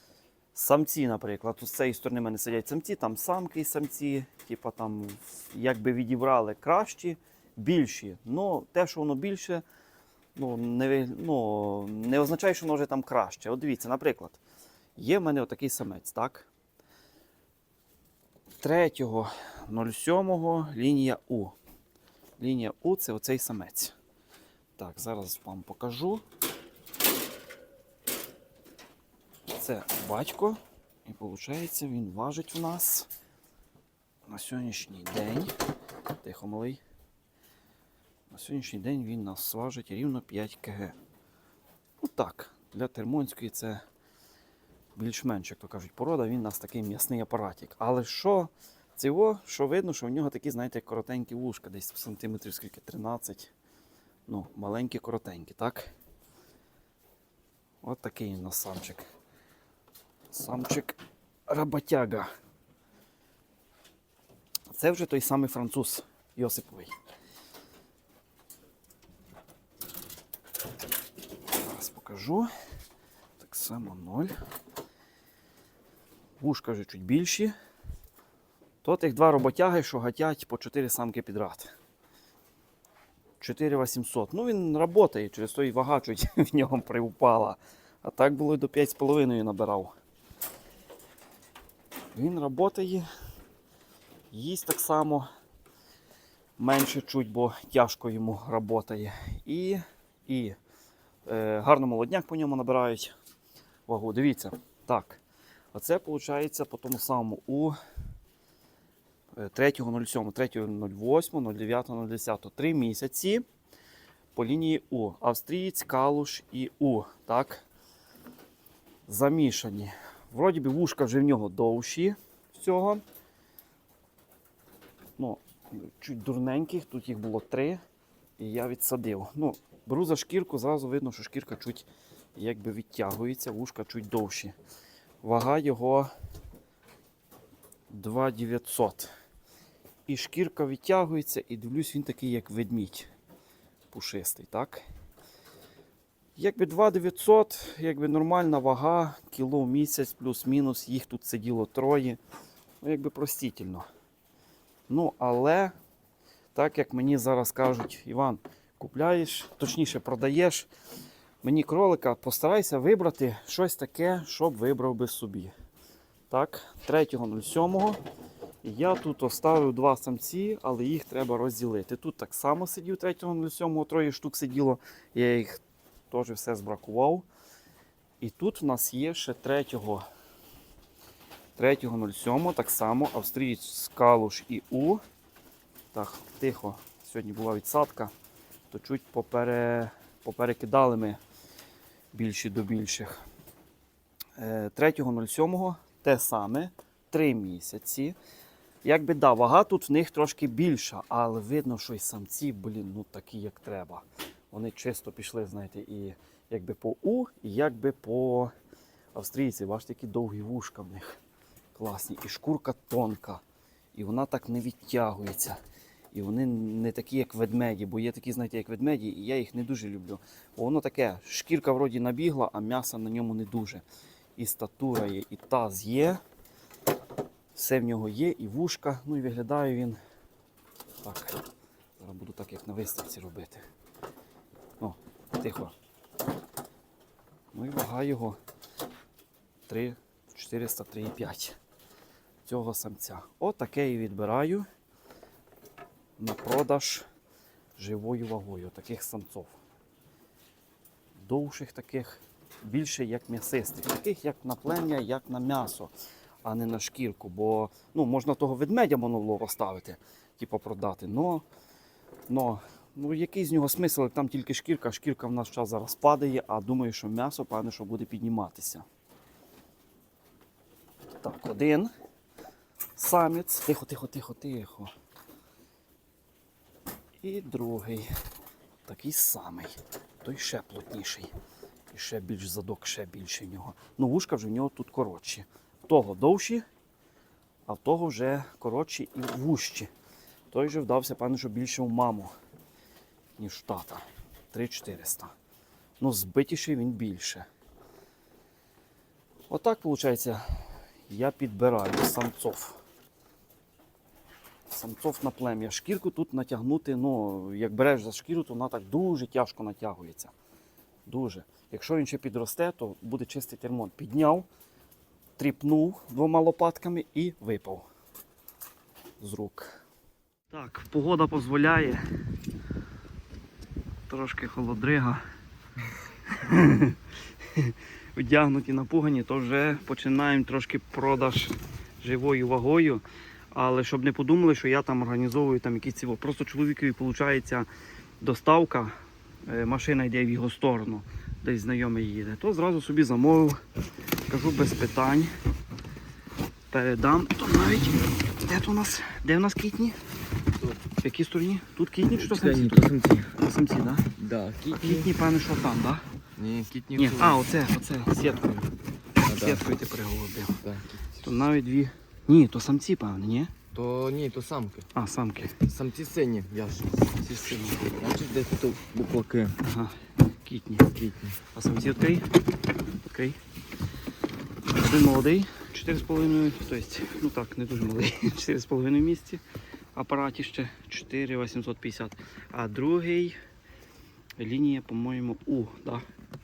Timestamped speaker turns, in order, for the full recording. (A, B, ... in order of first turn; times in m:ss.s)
0:00.5-0:09.6 A
0:10.4-0:14.4 A
0:15.0-0:16.5 A
0:18.6-0:21.6 A
0:22.4-0:23.9 A
0:24.8-0:26.2 A
0:29.5-0:33.1 A
0:34.3-0:35.5 A
0:36.2-0:36.8 A
0:38.3-0:41.0 A
0:42.0-0:43.8 A
0:45.0-0:53.5 A
0:54.3-0:55.9 A
0:57.8-0:59.0 A
1:00.3-1:02.3 A
1:04.7-1:06.9 A
1:11.6-1:12.5 A
1:13.4-1:14.3 A
1:16.4-1:17.5 A
1:18.8-1:21.7 A
1:23.4-1:29.9 A
1:32.2-1:33.0 A
1:34.3-1:35.3 A
1:36.6-1:40.6 A
1:41.3-1:43.1 A
1:43.9-1:45.2 A
1:45.7-1:47.8 A
1:49.4-1:53.4 A
1:54.4-1:57.6 A
1:59.1-2:03.0 A
2:05.2-2:07.8 A
2:08.4-2:14.5 A
2:15.2-2:16.1 A
2:17.9-2:19.1 A
2:20.1-2:23.1 A
2:23.9-2:24.8 A
2:26.4-2:32.2 A
2:32.8-2:33.9 A
2:34.9-2:35.7 A
2:36.6-2:40.7 A
2:41.4-2:45.5 A
2:46.3-2:48.0 A
2:48.6-2:57.2 A
2:58.2-3:00.0 A
3:01.6-3:05.0 A
3:05.9-3:08.1 A
3:08.7-3:11.2 A
3:12.1-3:13.2 A
3:14.4-3:18.2 A
3:18.8-3:28.5 A
3:29.2-3:31.2 A
3:31.8-3:33.4 A
3:34.0-3:35.6 A
3:36.1-3:43.8 A
3:44.4-3:46.2 A
3:47.6-3:50.0 A
3:51.0-3:51.4 A
3:52.0-3:53.6 A
3:54.8-3:55.7 A
3:57.5-3:58.4 A
3:59.7-4:01.6 A
4:02.4-4:04.7 A
4:06.2-4:07.0 A
4:07.8-4:09.5 A
4:11.2-4:15.9 A
4:16.4-4:21.4 A
4:22.3-4:28.8 A
4:31.2-4:31.9 A
4:33.0-4:34.9 A
4:37.2-4:38.1 A
4:38.8-4:41.3 A
4:41.9-4:46.6 A
4:47.7-4:49.9 A
4:50.5-4:52.3 A
4:53.4-4:55.3 A
4:56.0-4:57.5 A
4:59.5-5:00.4 A
5:01.1-5:02.8 A
5:04.7-5:10.3 A
5:11.1-5:14.5 A
5:15.4-5:17.8 A
5:19.2-5:19.8 A
5:20.5-5:22.0 A
5:24.1-5:25.2 A
5:26.3-5:27.0 A
5:27.6-5:37.7 A
5:38.2-5:38.9 A
5:39.5-5:43.6 A
5:44.3-5:45.3 A
5:46.7-5:50.0 A
5:51.0-5:54.1 A
5:52.2-5:53.3 B
5:54.2-5:55.1 B
5:54.6-5:56.0 A
5:56.4-5:57.4 B
5:56.9-5:58.7 A
5:59.3-5:59.6 B
5:59.3-6:00.6 A
6:00.6-6:01.2 B
6:01.2-6:03.5 A
6:03.7-6:04.9 B
6:05.0-6:05.6 A
6:05.5-6:07.2 B
6:07.2-6:07.9 A
6:07.8-6:09.6 B
6:09.6-6:11.0 A
6:11.0-6:11.4 B
6:11.5-6:12.3 A
6:13.1-6:13.4 A
6:14.7-6:19.4 A
6:20.0-6:23.4 A
6:24.4-6:26.1 A